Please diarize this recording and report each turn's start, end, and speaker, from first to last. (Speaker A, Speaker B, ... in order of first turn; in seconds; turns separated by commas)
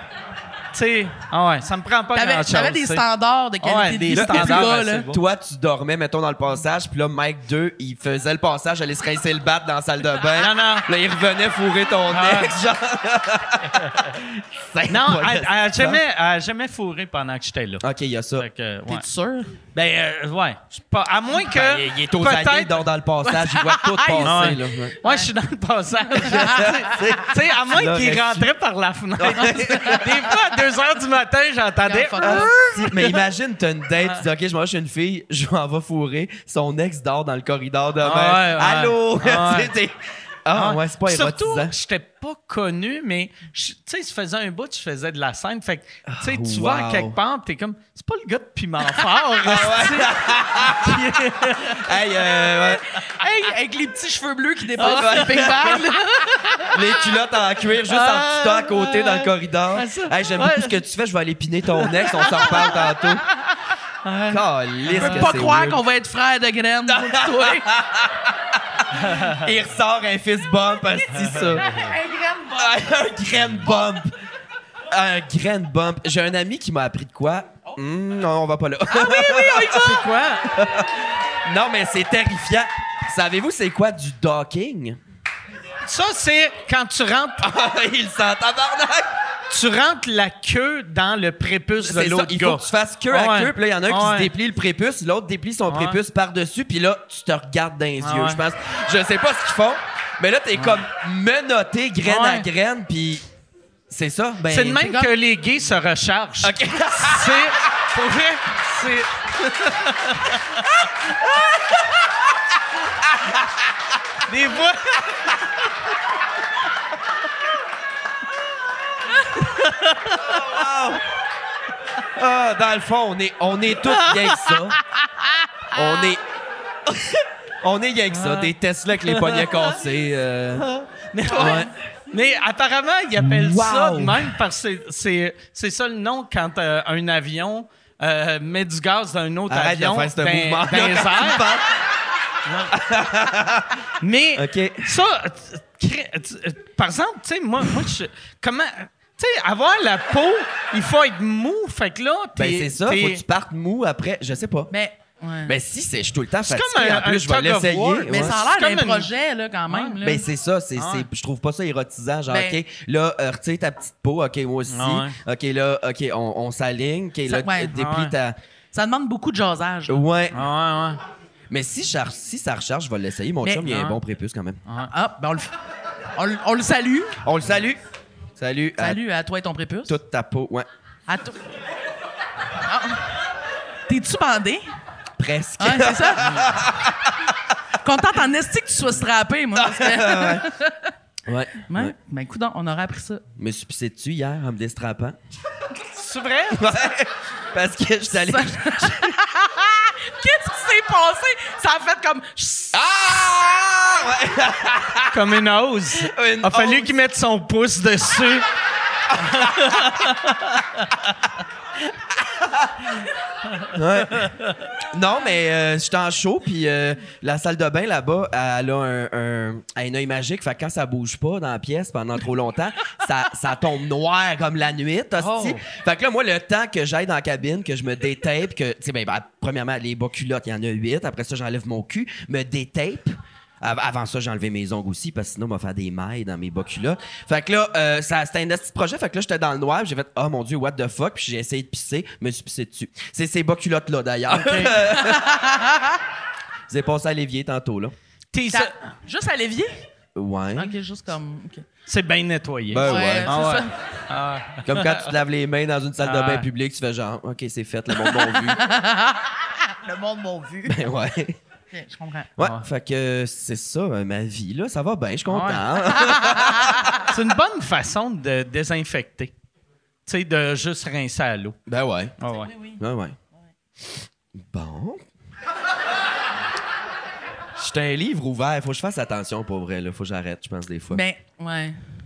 Speaker A: 0.7-3.0, Speaker B: 2.1-5.1, Speaker A: 3.6-5.2, Speaker C: 4.1-16.0, Speaker A: 10.4-10.9, Speaker A: 12.1-12.6, Speaker A: 14.9-17.8, Speaker C: 17.8-18.5, Speaker A: 18.4-19.1, Speaker B: 18.9-19.6, Speaker A: 19.7-22.8, Speaker C: 21.5-25.0, Speaker B: 23.2-25.3, Speaker A: 24.2-33.2, Speaker B: 26.2-27.0, Speaker C: 26.2-28.5, Speaker C: 29.2-30.2, Speaker B: 29.5-30.0, Speaker B: 31.9-32.7, Speaker C: 32.2-41.7, Speaker A: 38.0-39.7, Speaker A: 40.5-51.9, Speaker C: 46.1-47.2, Speaker C: 49.4-52.9, Speaker B: 52.5-57.0, Speaker C: 54.8-55.8, Speaker A: 54.8-55.8, Speaker C: 56.7-63.2, Speaker A: 57.9-60.8, Speaker A: 61.8-62.8, Speaker A: 64.0-65.5, Speaker C: 64.3-65.8, Speaker B: 64.9-67.7, Speaker C: 66.9-71.7, Speaker A: 69.0-69.4, Speaker A: 71.2-71.9, Speaker B: 71.6-72.8, Speaker C: 72.5-74.1, Speaker C: 74.9-79.9, Speaker B: 78.9-80.1, Speaker A: 79.2-80.5, Speaker C: 80.5-80.9, Speaker C: 81.5-85.0, Speaker A: 85.8-87.5, Speaker C: 87.4-89.1, Speaker A: 89.5-94.3, Speaker C: 91.8-103.2, Speaker A: 95.7-96.0, Speaker A: 98.0-98.4, Speaker A: 100.6-100.8, Speaker A: 102.0-102.5, Speaker C: 103.9-104.9, Speaker A: 104.5-110.7, Speaker B: 104.8-105.1, Speaker C: 106.4-107.6, Speaker C: 111.0-112.0, Speaker C: 113.0-113.7, Speaker A: 114.3-115.4, Speaker A: 119.3-120.5, Speaker C: 120.2-121.0, Speaker C: 122.1-124.8, Speaker A: 123.7-125.5, Speaker C: 125.7-126.2, Speaker C: 126.9-130.7, Speaker A: 128.1-129.7, Speaker A: 130.6-141.5, Speaker C: 131.3-131.7, Speaker C: 133.2-134.3, Speaker C: 139.5-141.8, Speaker A: 142.4-142.8, Speaker C: 142.7-143.8, Speaker A: 144.0-153.2, Speaker C: 144.3-144.9, Speaker C: 152.4-154.7, Speaker B: 154.7-155.6, Speaker C: 155.5-158.4, Speaker A: 156.5-159.1, Speaker B: 158.1-160.2, Speaker A: 159.7-160.0, Speaker C: 160.0-168.4, Speaker A: 160.8-161.1, Speaker B: 162.3-162.6, Speaker A: 164.7-165.2, Speaker B: 167.3-167.8, Speaker A: 167.8-168.2, Speaker B: 168.7-170.0, Speaker C: 169.9-170.4, Speaker A: 170.3-171.0, Speaker C: 171.5-174.6, Speaker B: 173.4-173.8, Speaker A: 174.7-174.9, Speaker B: 174.9-175.5, Speaker B: 176.2-177.2, Speaker C: 177.2-177.8, Speaker C: 178.4-179.0, Speaker B: 178.8-180.0, Speaker C: 179.9-180.7, Speaker B: 181.1-181.4, Speaker B: 182.6-183.1, Speaker B: 183.9-184.8, Speaker C: 185.2-187.3, Speaker B: 185.6-186.3, Speaker A: 186.2-186.5, Speaker B: 187.8-190.9, Speaker C: 189.6-190.5, Speaker C: 191.3-191.9, Speaker B: 191.7-193.2, Speaker C: 193.4-195.2, Speaker A: 195.9-196.8, Speaker C: 196.5-199.2, Speaker B: 198.2-202.8, Speaker C: 202.7-205.2, Speaker A: 205.1-208.5, Speaker C: 206.0-206.9, Speaker C: 209.1-209.8, Speaker A: 209.2-210.6, Speaker C: 212.3-212.9, Speaker C: 213.7-245.3, Speaker A: 214.2-214.5, Speaker A: 225.2-225.6, Speaker A: 244.3-244.8, Speaker B: 244.8-246.0, Speaker C: 246.7-247.9, Speaker A: 248.3-248.8, Speaker B: 248.5-249.7, Speaker C: 250.2-250.8, Speaker B: 250.6-251.7, Speaker A: 251.9-255.1, Speaker C: 252.7-253.4, Speaker B: 252.8-253.7, Speaker C: 254.7-258.6, Speaker A: 256.0-256.5, Speaker B: 258.1-260.7, Speaker C: 260.6-261.4, Speaker B: 261.7-262.3, Speaker C: 262.4-266.9, Speaker A: 262.4-262.6, Speaker A: 265.3-265.7, Speaker B: 266.1-266.7, Speaker A: 267.1-269.3, Speaker A: 270.1-271.6, Speaker C: 271.7-272.1, Speaker A: 272.2-272.5, Speaker B: 272.3-272.8, Speaker C: 272.8-273.2, Speaker C: 273.8-275.1, Speaker C: 277.6-281.0, Speaker B: 280.9-281.8